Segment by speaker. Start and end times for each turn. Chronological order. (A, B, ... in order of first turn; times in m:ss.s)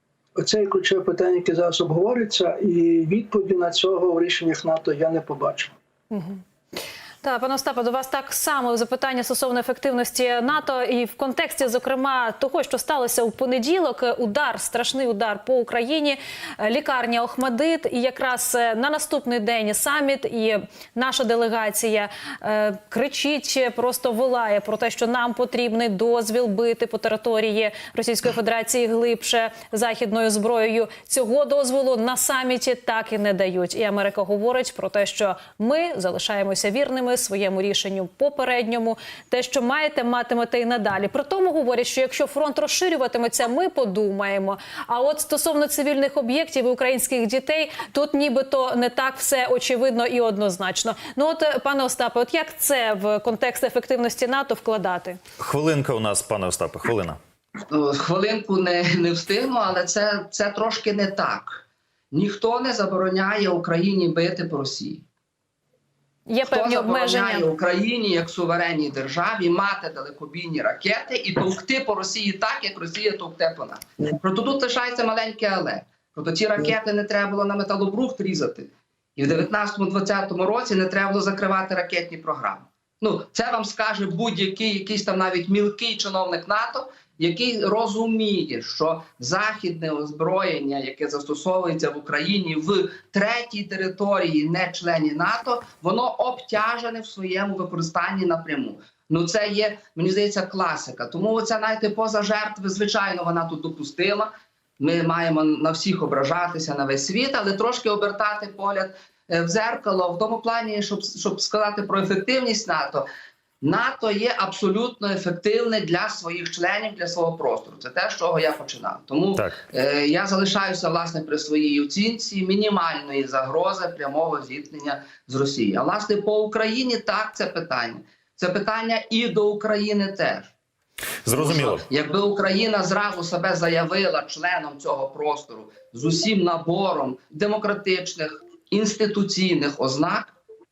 0:00.3-0:05.7 A
0:06.1-0:06.4 B
0:07.2-0:55.2 B
0:55.4-0:57.2 C
0:57.7-1:05.0 D
1:06.3-1:07.5 B
1:06.4-1:53.0 D
1:53.6-2:10.5 D
2:11.2-2:11.8 C
2:11.3-2:20.3 D